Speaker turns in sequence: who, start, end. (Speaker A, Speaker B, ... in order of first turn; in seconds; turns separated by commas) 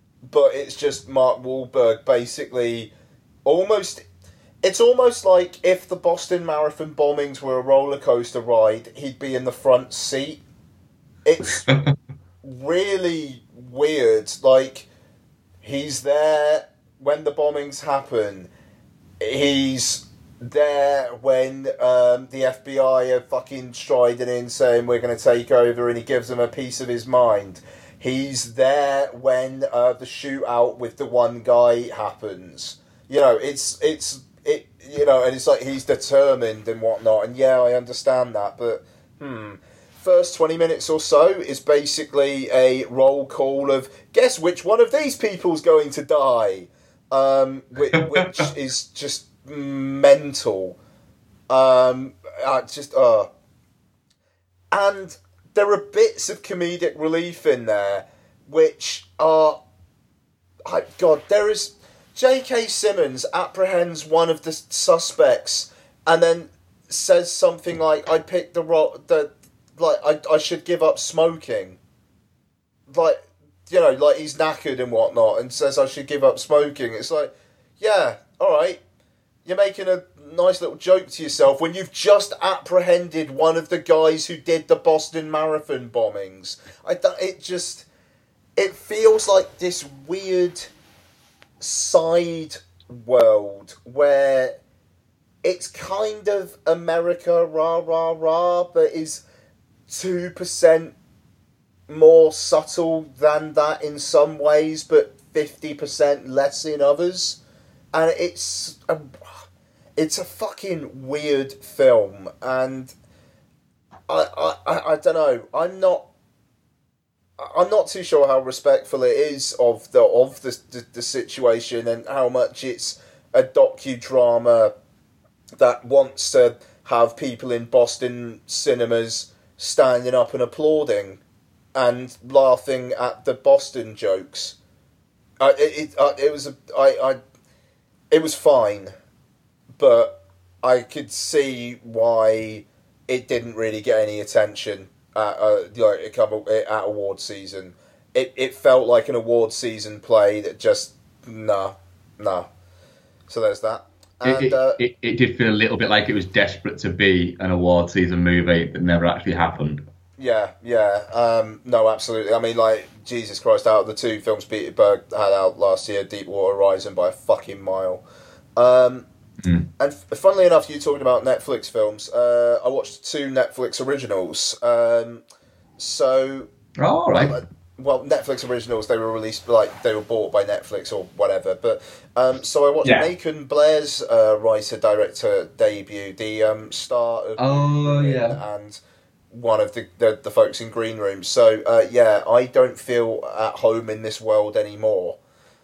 Speaker A: 0.3-2.9, Speaker A: 3.4-4.0, Speaker A: 4.6-10.4, Speaker A: 11.2-11.7, Speaker B: 11.7-11.9, Speaker A: 12.4-14.9, Speaker A: 15.6-18.5, Speaker A: 19.2-50.8, Speaker B: 47.9-48.2, Speaker A: 51.5-53.3, Speaker A: 54.7-59.6, Speaker A: 60.7-71.8, Speaker A: 72.9-78.8, Speaker A: 79.4-87.8, Speaker A: 88.6-90.7, Speaker A: 91.6-94.6, Speaker A: 95.4-99.2, Speaker A: 99.9-100.9, Speaker A: 101.9-107.4, Speaker A: 107.9-109.1, Speaker A: 110.0-112.9, Speaker A: 114.1-116.1, Speaker A: 117.4-124.7, Speaker A: 125.6-131.2, Speaker A: 131.7-134.6, Speaker A: 135.4-137.2, Speaker A: 138.1-138.9, Speaker A: 139.8-152.5, Speaker A: 153.3-154.8, Speaker B: 154.2-159.8, Speaker A: 160.2-168.0, Speaker A: 168.6-169.1, Speaker A: 169.8-175.2, Speaker A: 175.8-176.5, Speaker B: 176.8-177.3, Speaker A: 177.1-188.8, Speaker B: 182.8-183.1, Speaker B: 187.4-188.4, Speaker A: 189.3-195.2